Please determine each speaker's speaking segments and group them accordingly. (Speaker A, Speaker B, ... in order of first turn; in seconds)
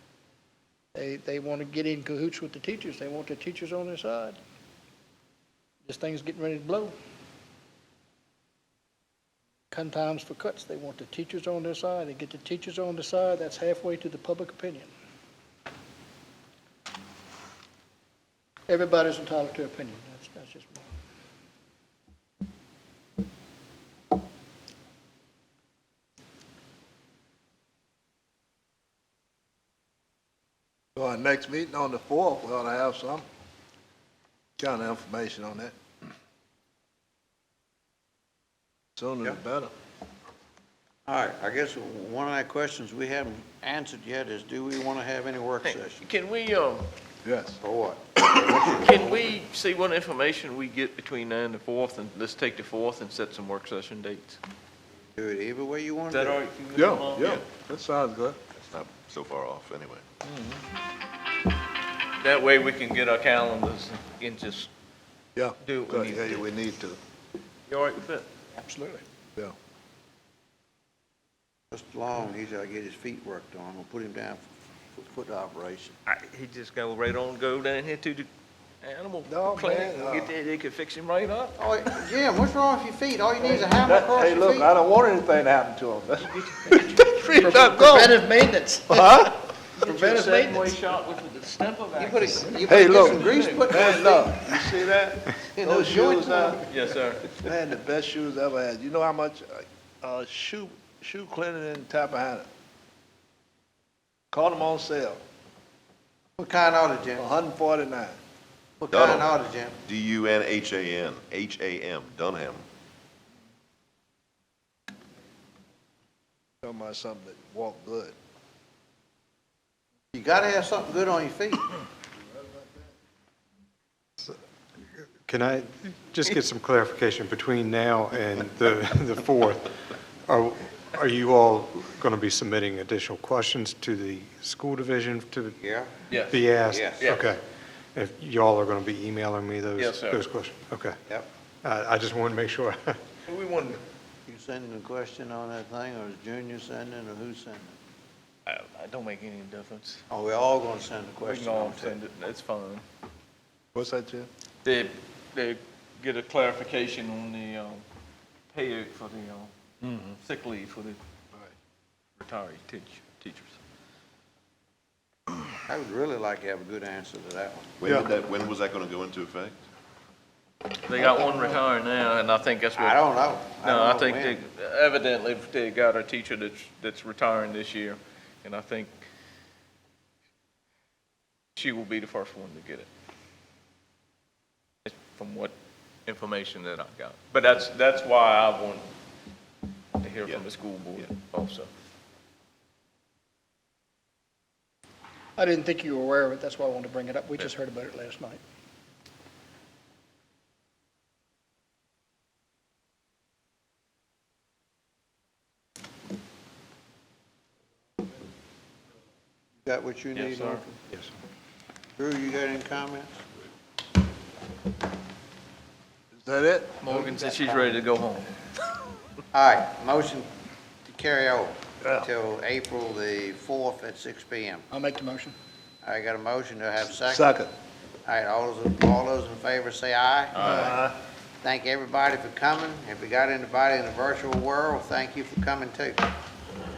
Speaker A: 0.9-4.4, 5.9-6.9, 9.7-14.9, 18.7-20.9, 68.6-69.0, 87.3-90.8, 195.4-198.4, 224.7-225.4
Speaker B: 31.0-33.2, 34.6-35.8, 39.0-39.7, 47.2-47.6, 56.7-58.4, 65.4-67.0, 79.3-80.3, 83.4-88.2, 88.9-89.4, 92.7-96.6, 97.4-102.5, 104.3-105.2, 107.2-108.2, 116.6-118.2, 153.7-154.3, 159.8-160.2, 216.1-216.9, 221.8-222.1, 227.1-227.5, 230.5-230.9
Speaker C: 41.1-46.1, 47.6-49.2, 55.1-56.4, 71.7-76.0, 81.6-84.7, 92.0-96.7, 106.4-107.3, 108.8-109.8, 120.1-121.7, 135.6-135.9, 136.7-137.1, 144.3-147.8, 150.1-152.0, 165.7-167.7, 171.0-171.6, 172.8-174.4, 209.7-210.8, 212.0-213.2, 219.3-220.3, 220.9-224.7, 225.8-227.3, 228.1-230.8, 231.4-236.1
Speaker D: 45.6-46.9, 48.6-54.4, 56.1-57.5, 62.2-64.7, 65.6-66.5, 67.7-68.3, 76.1-78.3, 78.8-81.6, 86.5-87.8, 89.8-93.8, 96.7-97.3, 136.1-137.3, 139.8-140.2, 143.3-143.8, 148.5-150.0, 151.2-152.8, 154.7-157.8, 158.5-159.5, 160.2-161.0, 162.2-163.5, 170.8-179.0, 181.6-182.9, 184.8-185.6, 186.1-188.9, 190.0-191.7, 210.2-210.6, 216.8-218.3, 230.3-230.8
Speaker E: 58.6-60.0, 108.9-109.3, 109.8-112.6, 167.8-169.6
Speaker F: 125.3-135.6, 136.3-137.4, 137.9-141.0, 141.6-143.0